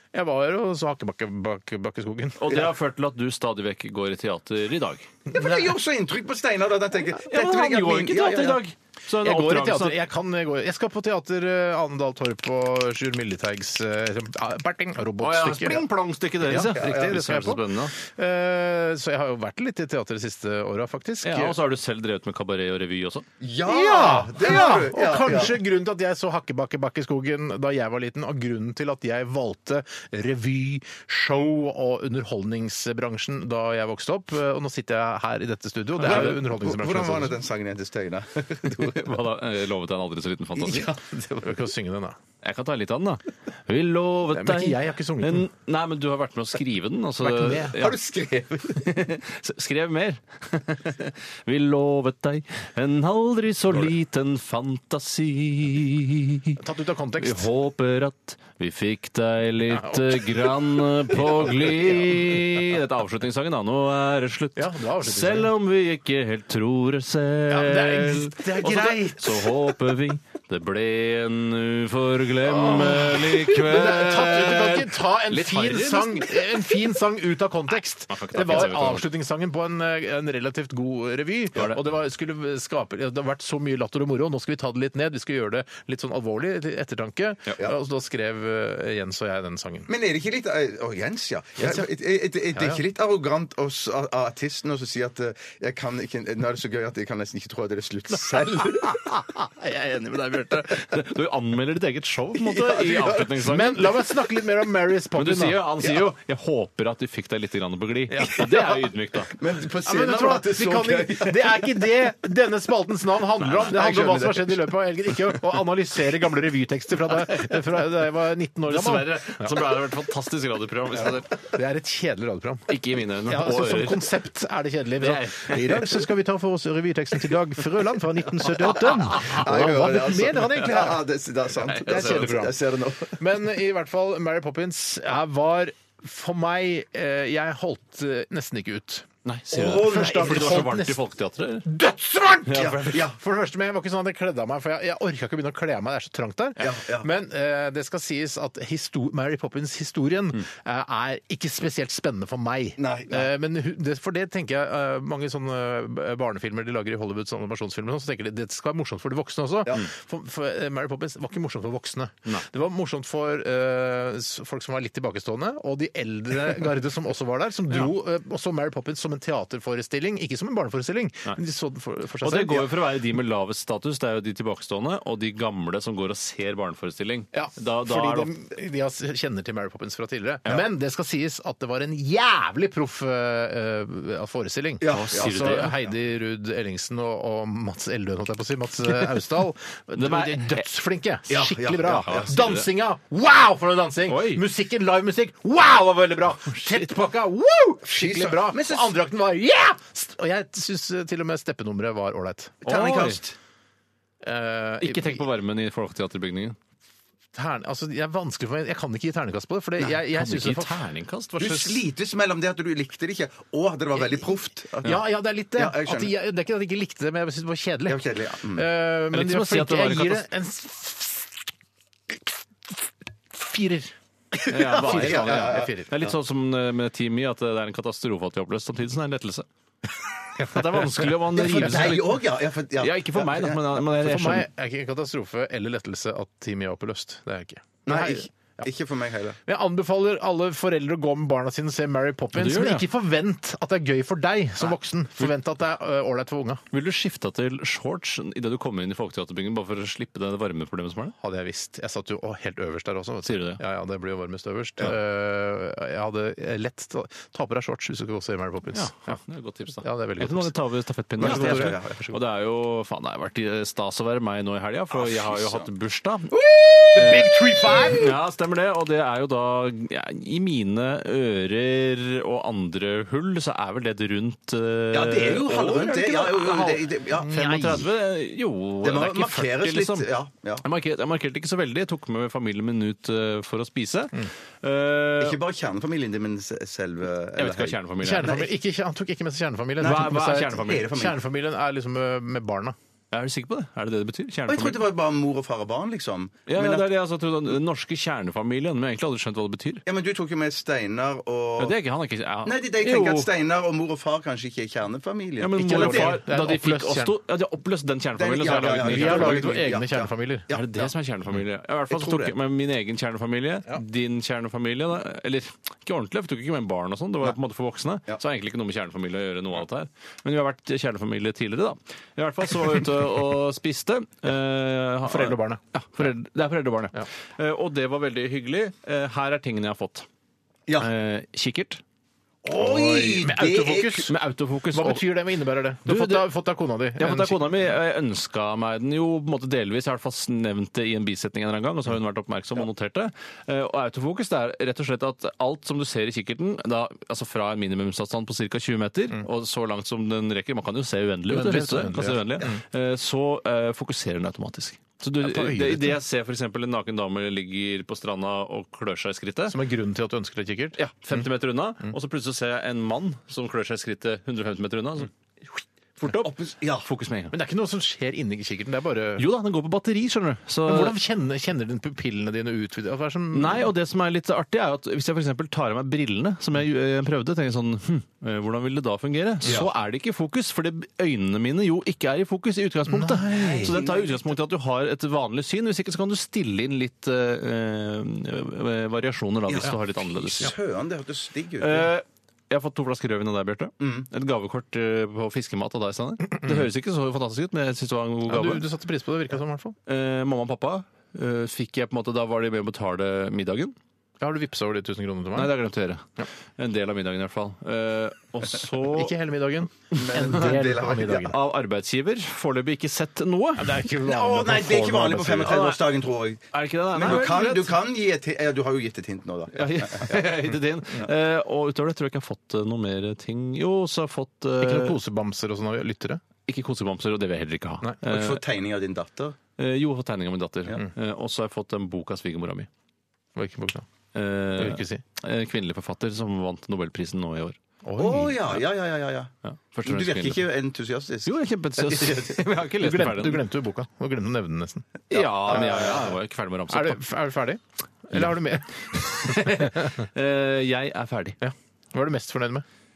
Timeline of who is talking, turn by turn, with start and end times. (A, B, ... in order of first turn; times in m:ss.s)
0:00.1-0:02.6 A
0:02.4-0:05.1 B
0:05.3-0:05.7 A
0:05.3-0:08.6 C
0:07.2-0:10.0 B
0:09.2-0:15.8 A
0:15.2-0:17.9 B
0:16.4-0:17.2 C
0:16.8-0:21.6 A
0:21.2-0:23.2 B
0:23.4-0:25.6 C
0:23.6-0:37.4 A
0:36.0-0:39.2 C
0:36.0-0:36.4 B
0:38.7-0:40.9 B
0:40.6-0:41.6 C
0:41.4-0:42.2 A
0:42.4-0:48.0 B
0:44.3-0:45.5 A
0:47.2-0:47.8 A
0:47.7-0:49.0 C
0:48.7-0:56.6 B
0:56.6-0:57.5 A
0:57.2-1:16.7 B
0:59.7-1:02.6 A
1:04.6-1:05.5 A
1:07.5-1:09.7 A
1:12.4-1:29.9 A
1:18.1-1:19.1 B
1:29.9-1:39.2 C
1:31.6-1:31.9 A
1:32.5-1:32.8 A
1:38.8-1:40.7 A
1:40.5-1:43.9 B
1:42.4-1:43.3 C
1:43.4-1:45.7 A
1:45.1-1:49.3 B
1:48.1-1:48.7 A
1:48.2-1:48.7 C
1:49.3-1:51.9 C
1:49.8-1:59.6 A
1:53.5-1:54.7 C
1:58.6-2:01.4 B
2:01.4-2:11.0 A
2:02.7-2:04.2 B
2:05.0-2:05.6 B
2:05.5-2:06.0 C
2:09.1-2:13.2 C
2:11.6-2:12.4 B
2:11.8-2:12.6 A
2:13.2-2:21.0 A
2:19.2-2:21.7 B
2:19.5-2:20.7 C
2:21.6-2:52.8 A
2:22.5-2:22.9 B
2:22.5-2:23.2 C
2:26.6-2:27.1 C
2:32.8-2:33.3 C
2:52.2-2:58.3 B
2:57.3-3:22.6 A
3:04.8-3:05.9 C
3:04.9-3:05.7 B
3:10.0-3:10.6 B
3:11.3-3:12.3 C
3:12.0-3:12.7 B
3:14.1-3:14.4 B
3:17.9-3:19.0 C
3:22.6-3:23.4 C
3:22.6-3:23.2 B
3:24.2-3:25.2 A
3:24.8-3:26.6 B
3:27.3-3:30.8 A
3:30.1-3:31.7 B
3:31.4-3:36.1 C
3:34.8-3:41.5 A
3:37.9-3:38.7 C
3:39.1-3:40.2 B
3:42.1-3:45.9 A
3:44.4-3:46.1 C
3:44.5-3:49.4 B
3:50.4-3:52.2 B
3:50.4-3:51.0 A
3:51.3-3:53.7 C
3:52.8-3:54.5 B
3:53.8-3:58.7 A
3:57.8-3:59.4 C
3:59.4-4:06.6 A
4:02.3-4:02.8 B
4:06.7-4:11.1 B
4:11.2-4:19.2 A
4:13.2-4:13.6 B
4:18.7-4:26.4 B
4:19.8-4:20.5 A
4:21.2-4:21.8 A
4:21.2-4:22.2 C
4:24.9-4:25.6 C
4:26.3-4:28.0 C
4:26.9-4:28.1 A
4:26.9-4:40.1 B
4:34.9-4:37.4 C
4:37.1-4:37.8 A
4:38.8-4:40.6 C
4:40.6-4:45.4 B
4:45.2-4:48.4 C
4:47.4-4:48.4 B
4:48.0-4:52.8 A
4:49.8-4:50.9 B
4:49.8-4:51.2 C
4:53.1-4:54.8 B
4:54.5-4:56.9 C
4:56.5-4:59.8 B
4:59.8-5:01.8 C
5:01.6-5:03.3 B
5:02.4-5:06.2 C
5:05.4-5:09.5 B
5:05.6-5:07.2 A
5:08.2-5:10.9 C
5:08.8-5:10.4 A
5:10.5-5:30.0 B
5:11.9-5:12.3 C
5:25.0-5:25.6 A
5:30.8-5:31.8 B
5:32.4-5:34.1 C
5:32.5-5:34.1 A
5:34.0-5:35.1 B
5:34.7-5:37.4 A
5:35.8-5:36.3 B
5:37.0-5:59.6 B
5:51.3-5:52.6 A
5:55.2-5:56.0 A
5:59.5-6:01.2 A
6:00.7-6:07.4 B
6:06.1-6:06.9 C
6:07.3-6:09.3 A
6:09.2-6:11.0 B
6:10.6-6:13.7 A
6:13.3-6:30.5 B
6:19.4-6:19.7 C
6:22.9-6:23.8 A
6:23.3-6:24.2 C
6:29.5-6:31.9 C
6:31.6-6:38.6 B
6:33.8-6:34.1 C
6:38.3-6:39.8 A
6:39.9-6:43.7 B
6:44.2-6:45.6 A
6:45.3-6:49.1 B
6:48.9-6:51.4 A
6:49.9-6:51.3 C
6:49.9-6:50.4 B
6:51.2-6:53.8 B
6:53.6-6:55.6 A
6:54.0-7:00.3 C
6:55.4-6:55.8 B
6:56.5-6:57.7 B
6:59.5-7:05.0 B
7:04.6-7:06.2 A
7:06.4-7:08.4 B
7:08.0-7:09.4 C
7:09.6-7:12.7 B
7:13.3-7:13.8 A
7:14.1-7:17.6 B
7:14.5-7:15.0 A
7:17.8-7:18.6 A
7:18.0-7:19.3 C
7:19.4-7:20.4 B
7:19.8-7:22.4 C
7:21.2-7:23.4 B
7:22.8-7:24.9 A
7:25.1-7:27.0 B
7:25.2-7:26.0 C
7:25.4-7:26.0 A
7:26.7-7:29.9 A
7:28.1-7:31.4 B
7:31.4-7:32.6 A